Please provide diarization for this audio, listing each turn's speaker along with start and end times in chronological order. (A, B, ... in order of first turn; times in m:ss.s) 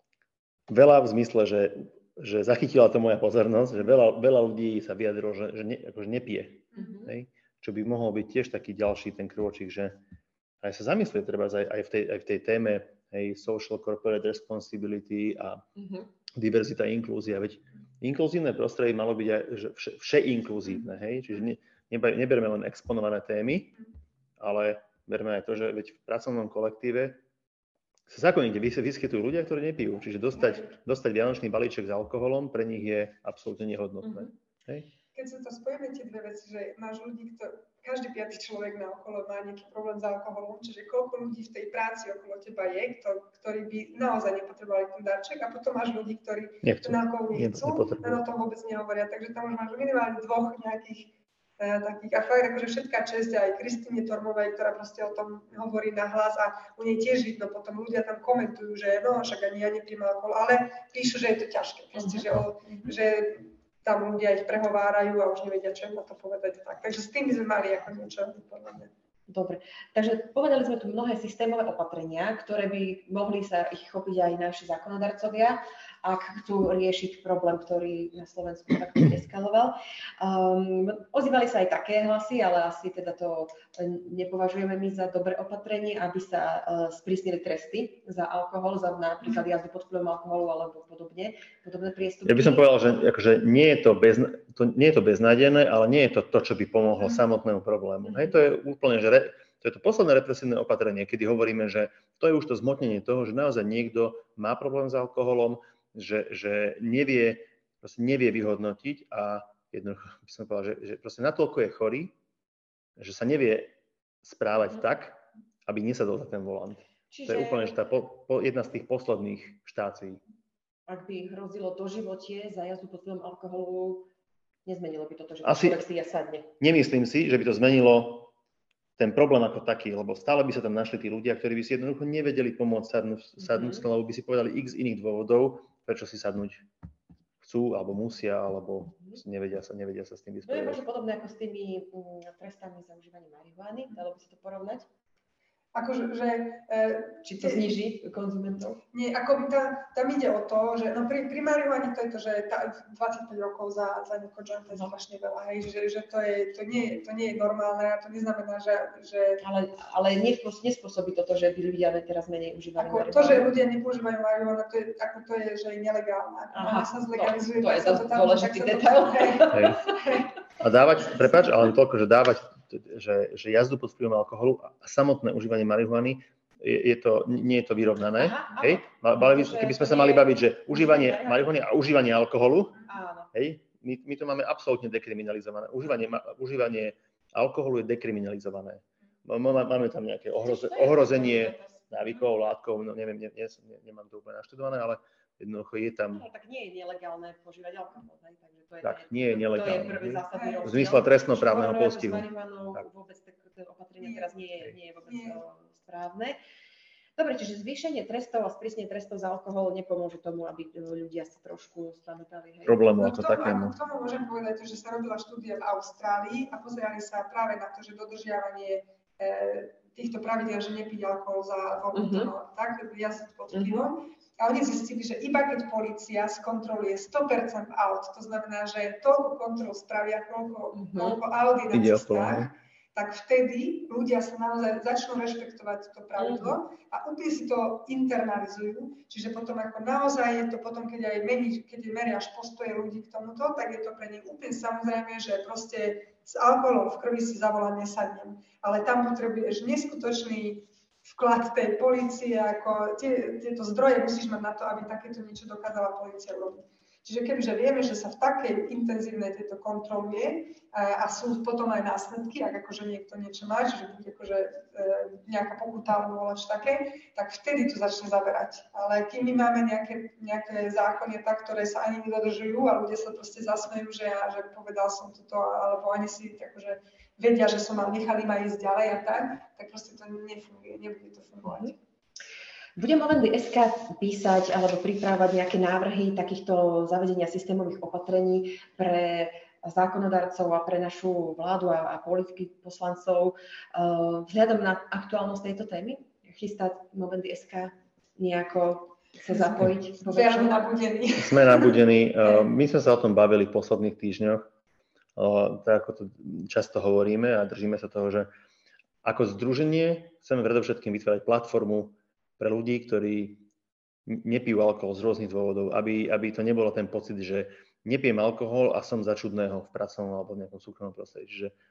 0:00.7-0:10.0 A
0:06.7-0:07.1 B
0:10.6-0:15.6 A
0:15.8-0:16.1 B
0:16.3-0:23.8 A
0:24.4-0:27.2 A
0:28.1-0:34.9 A
0:34.0-0:34.3 B
0:35.1-1:08.9 C
0:46.6-0:48.2 A
1:02.0-1:02.2 B
1:09.3-1:32.7 B
1:32.2-1:52.1 A
1:38.0-1:38.4 B
1:53.0-2:00.2 A
1:57.1-1:57.8 B
2:00.9-2:04.1 B
2:04.7-2:06.5 B
2:05.4-2:05.8 A
2:06.6-2:08.3 A
2:09.0-2:16.6 A
2:13.5-2:13.8 B
2:17.4-2:20.8 A
2:20.4-2:24.9 B
2:25.7-2:27.7 C
2:27.2-2:28.8 B
2:28.9-2:39.4 C
2:39.4-2:43.5 B
2:42.8-2:50.2 C
2:46.5-2:50.2 B
2:49.5-2:49.9 A
2:50.6-3:16.2 A
2:58.2-3:01.6 B
3:02.9-3:03.3 B
3:10.4-3:11.9 B
3:16.1-3:26.4 B
3:18.8-3:22.8 A
3:20.3-3:20.7 C
3:24.0-3:24.3 C
3:25.1-3:25.4 C
3:27.2-3:32.9 B
3:32.6-3:33.7 A
3:33.0-4:41.8 C
3:41.9-3:42.3 B
3:43.5-3:43.9 B
3:50.7-3:51.2 B
3:51.7-3:52.5 A
3:56.2-3:56.6 B
4:41.5-4:41.7 B
4:42.8-5:00.7 B
4:59.3-5:02.5 C
5:01.2-5:04.5 A
5:05.2-5:08.3 A
5:09.0-5:13.4 A
5:14.1-5:21.5 A